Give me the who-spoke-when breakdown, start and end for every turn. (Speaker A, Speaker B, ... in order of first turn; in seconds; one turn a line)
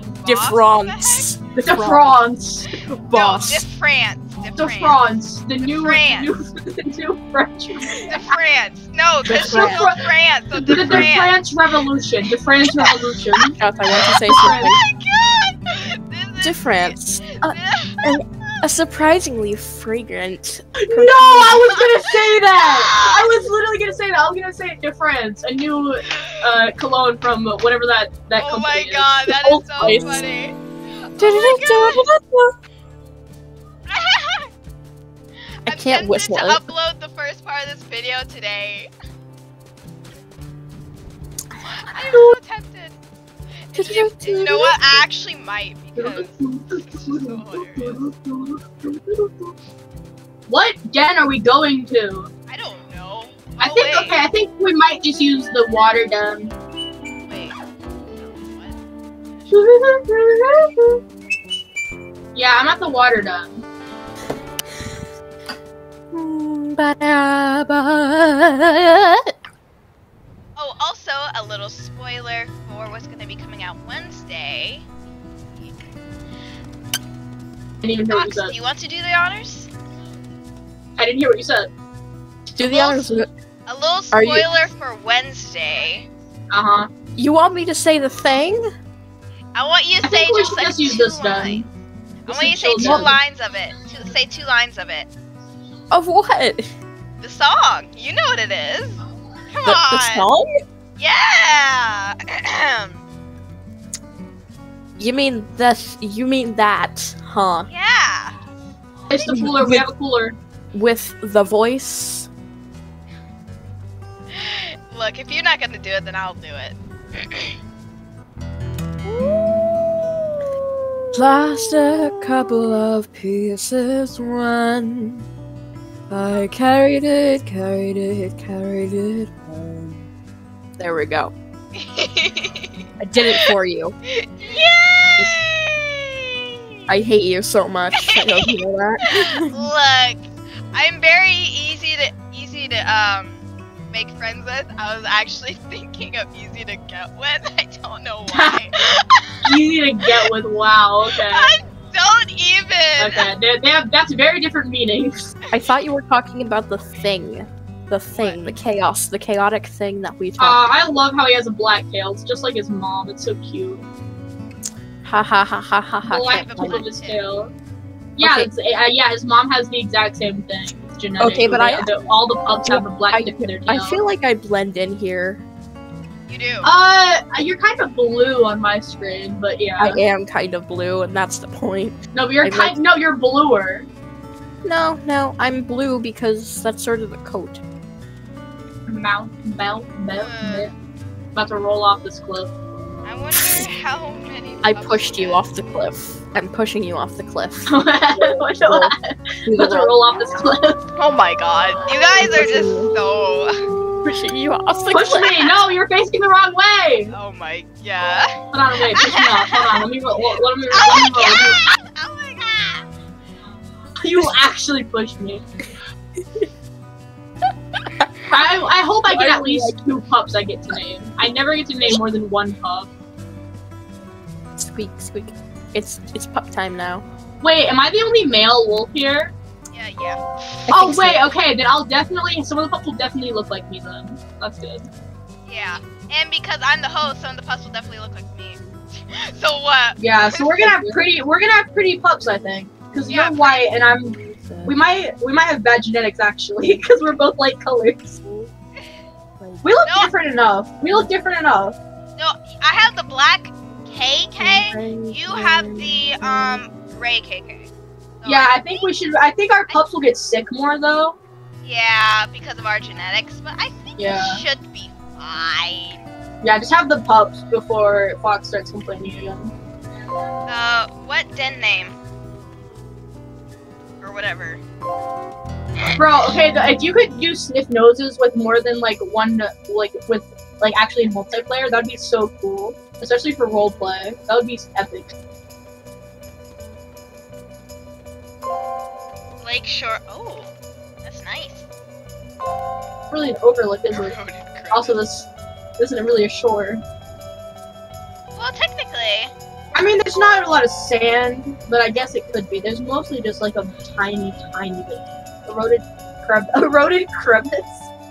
Speaker A: 0.2-1.3
Speaker B: 0.2-2.1
Speaker C: 1.6-2.7
Speaker B: 2.9-3.7
Speaker A: 3.1-5.0
Speaker C: 4.6-8.2
Speaker A: 5.7-6.3
Speaker A: 8.1-11.4
Speaker C: 9.3-10.1
Speaker B: 9.3-9.9
Speaker C: 10.6-13.6
Speaker B: 10.6-11.1
Speaker B: 13.6-14.8
Speaker A: 14.1-18.0
Speaker C: 14.2-14.8
Speaker B: 16.4-21.8
Speaker C: 20.8-29.9
Speaker A: 21.7-23.4
Speaker A: 28.4-32.0
Speaker B: 29.8-30.2
Speaker B: 31.2-32.5
Speaker A: 33.9-34.5
Speaker A: 35.7-38.9
Speaker B: 35.7-36.6
Speaker A: 41.6-43.0
Speaker A: 43.7-48.0
Speaker B: 43.8-44.8
Speaker C: 46.0-49.5
Speaker C: 50.5-52.3
Speaker A: 52.5-54.2
Speaker C: 53.6-56.5
Speaker A: 57.3-57.6
Speaker A: 58.2-58.8
Speaker C: 59.5-61.0
Speaker C: 62.4-63.6
Speaker B: 66.1-69.3
Speaker A: 70.6-74.9
Speaker C: 77.8-78.5
Speaker A: 78.1-79.7
Speaker C: 81.0-81.7
Speaker B: 82.6-83.3
Speaker A: 82.6-86.1
Speaker B: 84.1-84.5
Speaker C: 86.5-86.9
Speaker B: 87.2-88.7
Speaker A: 89.5-91.7
Speaker C: 90.0-91.7
Speaker A: 92.3-95.1
Speaker C: 92.3-93.2
Speaker B: 92.8-93.2
Speaker B: 95.9-96.7
Speaker A: 97.2-100.3
Speaker B: 99.6-100.5
Speaker A: 101.0-103.0
Speaker B: 105.0-107.7
Speaker A: 107.7-108.4
Speaker C: 109.1-110.4
Speaker B: 109.3-109.9
Speaker B: 110.7-112.3
Speaker A: 114.3-116.8
Speaker B: 121.1-125.2
Speaker B: 126.1-130.0
Speaker B: 130.8-131.3
Speaker A: 131.7-133.5
Speaker B: 133.0-133.9
Speaker A: 134.1-136.3
Speaker B: 136.9-139.6
Speaker A: 138.0-138.6
Speaker A: 139.1-149.5
Speaker C: 148.3-148.7
Speaker C: 149.4-151.6
Speaker A: 151.2-153.3
Speaker C: 153.0-155.2
Speaker A: 155.4-155.7
Speaker B: 155.5-160.6
Speaker A: 158.2-158.5
Speaker C: 160.4-163.8
Speaker B: 165.0-166.8
Speaker C: 166.1-167.5
Speaker A: 166.2-167.2
Speaker C: 168.2-174.0
Speaker B: 168.2-168.5
Speaker B: 171.2-171.9
Speaker B: 172.7-175.4
Speaker A: 176.3-176.7
Speaker C: 176.6-180.0
Speaker B: 179.8-182.8
Speaker C: 182.1-183.9
Speaker B: 184.6-187.6
Speaker C: 188.9-190.7
Speaker A: 190.2-190.7
Speaker C: 191.3-192.5
Speaker A: 193.1-195.5
Speaker B: 193.4-193.6
Speaker B: 194.6-198.9
Speaker C: 197.7-200.8
Speaker B: 199.5-200.0
Speaker A: 201.0-203.6
Speaker B: 202.1-202.9
Speaker B: 204.0-205.7
Speaker C: 204.9-207.2
Speaker A: 207.1-209.8
Speaker C: 208.5-211.6
Speaker A: 210.7-212.9
Speaker C: 214.0-215.4
Speaker C: 218.3-222.9
Speaker B: 219.1-219.8
Speaker B: 224.6-227.1
Speaker C: 227.4-229.3
Speaker A: 229.7-230.7
Speaker B: 230.7-231.3
Speaker C: 230.7-234.9
Speaker A: 235.5-240.9
Speaker C: 240.0-248.2
Speaker A: 243.1-243.7
Speaker B: 244.1-244.8
Speaker B: 249.4-249.7
Speaker C: 249.6-251.8
Speaker A: 249.9-250.1
Speaker A: 252.2-257.7
Speaker B: 254.3-256.0
Speaker A: 258.2-258.6
Speaker C: 258.2-261.2
Speaker A: 261.6-266.0
Speaker C: 264.0-264.4
Speaker C: 266.4-269.5
Speaker A: 270.5-272.0
Speaker A: 274.0-274.6
Speaker C: 276.0-285.1
Speaker A: 289.4-290.5
Speaker A: 291.0-291.7
Speaker C: 293.1-294.2
Speaker A: 293.9-295.0
Speaker C: 294.7-296.8
Speaker A: 298.4-299.3
Speaker C: 299.8-307.9